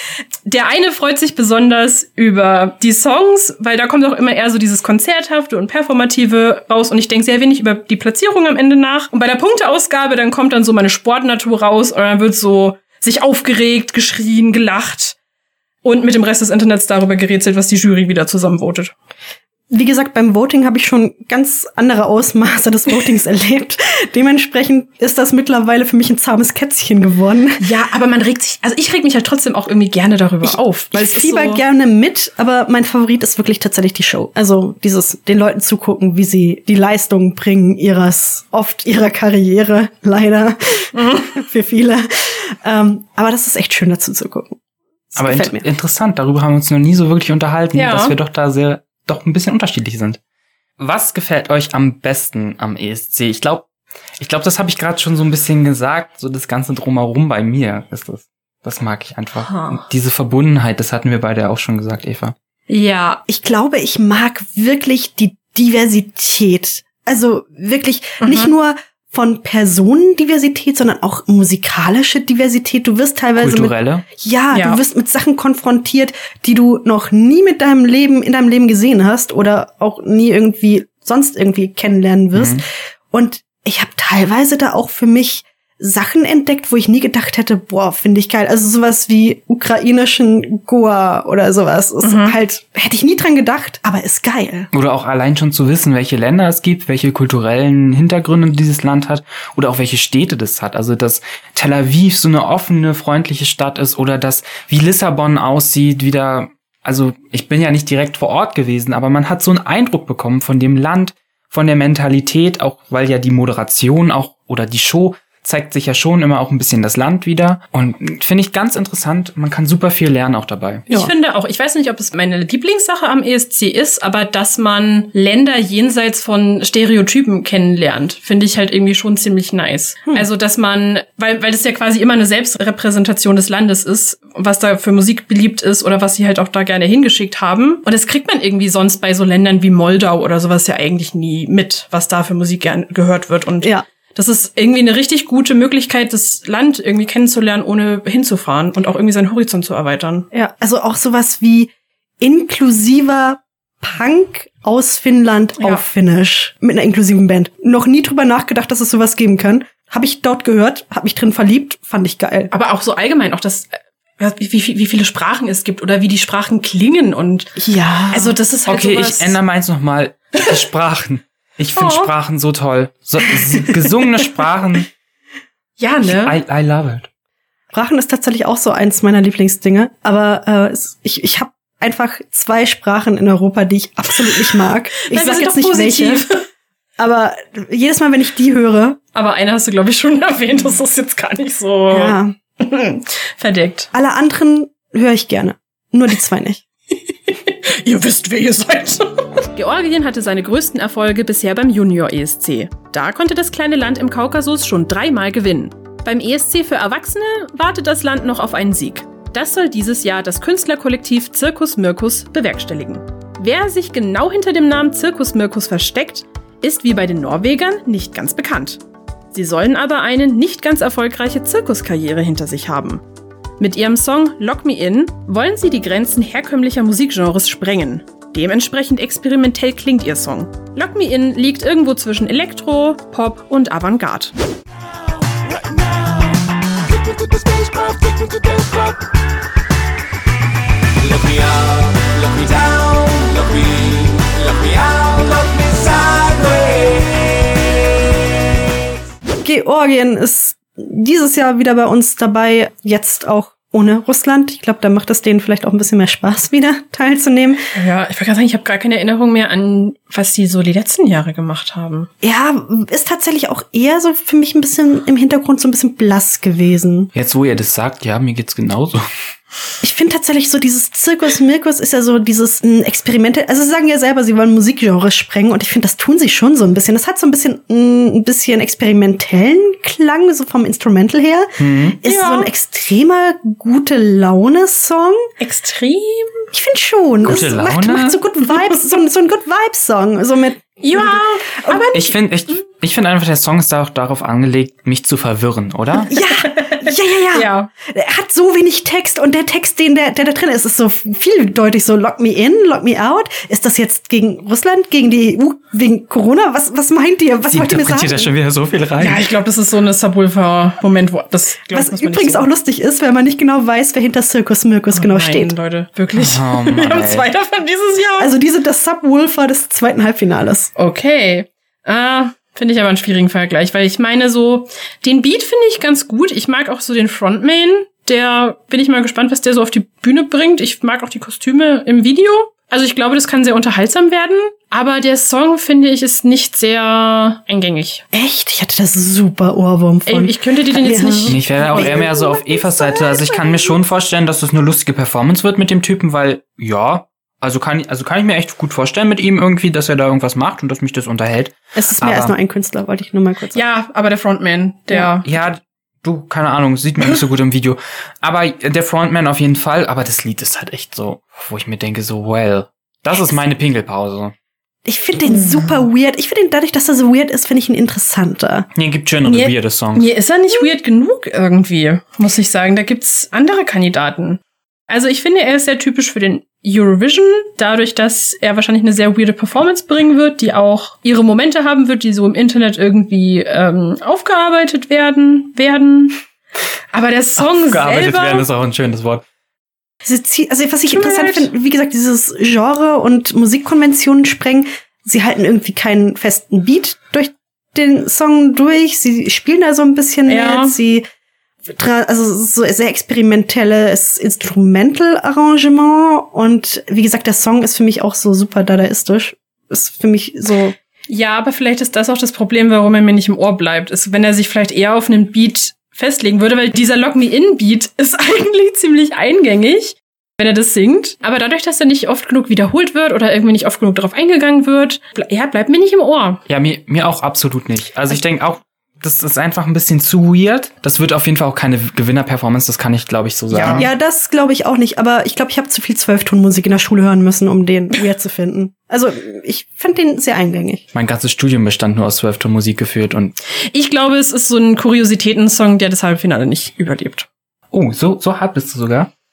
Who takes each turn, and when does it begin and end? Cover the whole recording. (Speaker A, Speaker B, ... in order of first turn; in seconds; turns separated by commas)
Speaker A: 0.5-15.2, Speaker A: 15.8-18.9, Speaker B: 19.7-27.6, Speaker A: 27.6-31.6, Speaker B: 30.4-44.6, Speaker A: 40.9-41.3, Speaker B: 45.1-45.6, Speaker C: 45.2-50.2, Speaker A: 47.7-48.1, Speaker C: 50.8-53.6, Speaker C: 54.2-62.3, Speaker A: 59.4-59.8, Speaker A: 62.7-63.2, Speaker B: 63.3-94.7, Speaker A: 68.2-68.5, Speaker C: 73.4-74.0, Speaker A: 74.5-74.8, Speaker C: 82.3-82.6, Speaker A: 92.0-92.3, Speaker C: 94.7-120.8, Speaker A: 120.9-150.3, Speaker B: 150.3-162.5, Speaker A: 162.5-167.6, Speaker B: 167.6-168.4, Speaker A: 168.1-169.4, Speaker C: 168.7-174.9, Speaker A: 171.8-172.1, Speaker A: 175.8-176.3, Speaker C: 176.0-177.1, Speaker B: 177.7-186.3, Speaker A: 185.0-186.4, Speaker B: 187.0-189.0, Speaker A: 189.1-193.9, Speaker B: 191.9-192.3, Speaker B: 193.9-196.6, Speaker A: 197.3-223.0, Speaker A: 223.6-234.3, Speaker B: 249.4-257.7, Speaker A: 257.7-262.1, Speaker B: 262.2-267.1, Speaker C: 267.1-269.1, Speaker B: 269.8-285.3, Speaker C: 281.6-282.0, Speaker A: 282.0-282.5, Speaker A: 285.4-286.4, Speaker B: 286.5-291.9, Speaker C: 287.2-288.2, Speaker A: 290.8-292.1, Speaker C: 291.9-296.1, Speaker B: 296.1-308.3, Speaker A: 296.1-297.7, Speaker C: 307.5-309.2, Speaker A: 309.0-312.4, Speaker B: 311.7-315.5, Speaker A: 314.9-318.3, Speaker C: 316.1-317.3, Speaker B: 318.2-320.7, Speaker A: 320.8-338.0, Speaker B: 338.1-343.7, Speaker A: 340.1-342.0, Speaker C: 341.3-352.3, Speaker B: 351.8-353.6, Speaker A: 353.5-355.2, Speaker C: 355.2-364.3, Speaker B: 364.9-368.7, Speaker C: 368.8-370.1, Speaker A: 369.2-386.2, Speaker A: 386.9-388.4, Speaker C: 387.4-389.2, Speaker B: 390.0-401.0, Speaker A: 390.9-391.5, Speaker A: 400.3-400.8, Speaker B: 401.6-410.8, Speaker A: 411.1-426.4, Speaker C: 426.5-433.9, Speaker A: 433.5-433.9, Speaker B: 433.7-440.8, Speaker C: 440.9-443.3, Speaker A: 443.7-447.3, Speaker C: 447.7-449.1